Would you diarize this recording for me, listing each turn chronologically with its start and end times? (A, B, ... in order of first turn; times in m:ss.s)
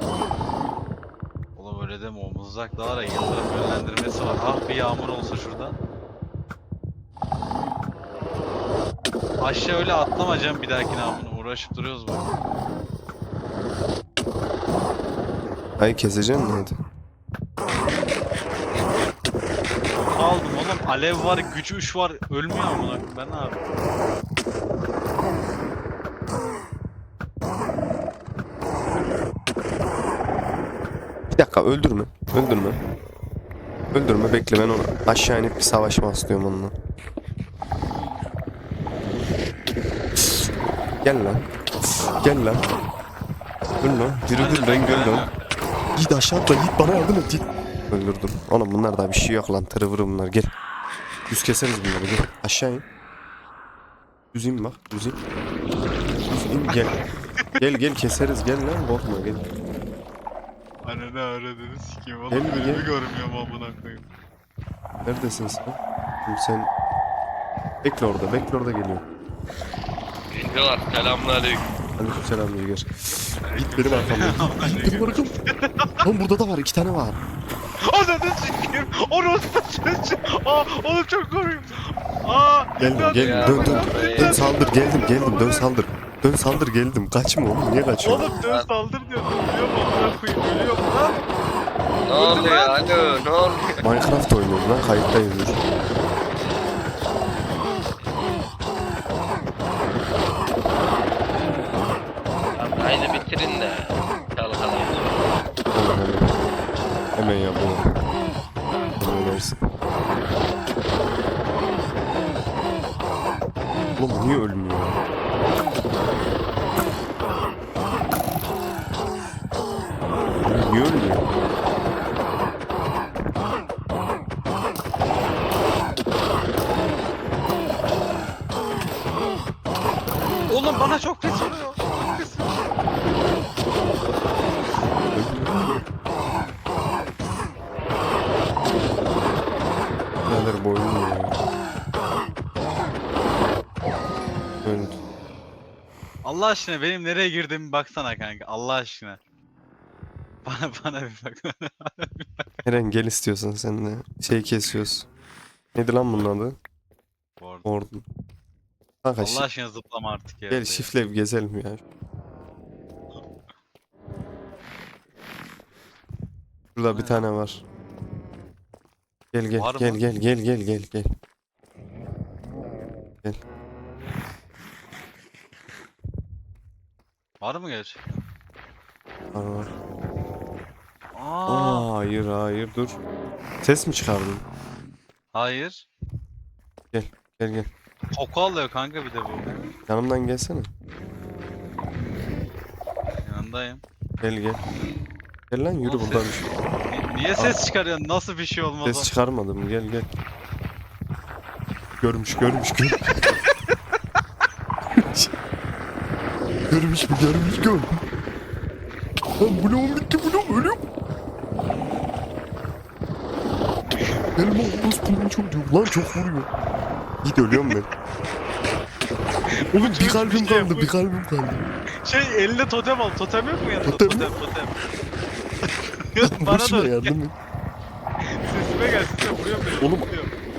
0:01.6-0:05.8 A
0:09.4-0:12.3 A
0:15.8-0:16.8 B
0:20.0-0:23.7 A
0:31.3-0:32.8 B
0:33.9-0:36.7 B
0:41.0-0:42.6 B
0:43.8-0:45.3 B
0:44.3-0:45.4 A
0:46.0-0:50.5 B
0:51.3-0:52.8 B
0:54.3-0:55.2 B
0:56.3-0:57.0 B
0:57.6-0:59.5 B
1:00.8-1:04.0 A
1:02.3-1:02.9 B
1:05.0-1:06.7 B
1:07.8-1:09.0 B
1:10.3-1:11.6 C
1:12.0-1:15.3 B
1:13.5-1:16.0 A
1:16.0-1:17.2 B
1:17.8-1:25.7 A
1:22.8-1:28.3 B
1:23.1-1:24.4 C
1:28.0-1:31.3 A
1:28.4-1:28.7 C
1:32.1-1:33.8 C
1:32.1-1:33.0 A
1:33.8-1:35.6 B
1:42.6-1:45.3 C
1:45.7-1:46.4 B
1:47.2-1:47.9 B
1:49.0-1:49.7 B
1:54.0-1:55.0 B
2:00.4-2:01.2 B
2:10.5-2:12.6 A
2:15.1-2:15.8 B
2:20.3-2:21.4 B
2:24.6-2:25.0 B
2:26.2-2:29.2 A
2:30.4-2:32.5 A
2:32.6-2:35.1 B
2:35.7-2:36.6 B
2:37.4-2:37.7 A
2:37.6-2:38.0 B
2:39.0-2:39.4 B
2:39.2-2:40.9 A
2:40.5-2:41.8 B
2:46.7-2:47.6 B
2:46.9-2:47.3 A
2:49.3-2:51.1 B
2:49.6-2:50.0 A
2:57.4-2:58.0 A
2:59.3-2:59.7 B
3:01.1-3:01.9 A
3:01.5-3:03.0 B
3:03.6-3:04.4 B
3:05.3-3:05.9 A
3:06.9-3:07.7 B
3:08.1-3:09.6 A
3:09.9-3:10.7 B
3:13.2-3:13.8 A
3:14.2-3:14.6 B
3:15.5-3:16.5 B
3:15.8-3:19.1 A
3:18.8-3:20.1 B
3:22.0-3:23.4 B
3:24.9-3:25.3 B
3:26.7-3:28.0 B
3:29.4-3:30.8 B
3:34.0-3:34.3 A
3:34.4-3:36.5 B
3:37.2-3:37.9 B
3:37.5-3:37.8 A
3:39.5-3:40.9 A
3:39.7-3:41.6 B
3:42.0-3:44.7 A
3:43.8-3:44.3 B
3:46.0-3:47.1 A
3:46.2-3:47.4 B
3:48.2-3:50.3 A
3:49.8-3:50.1 B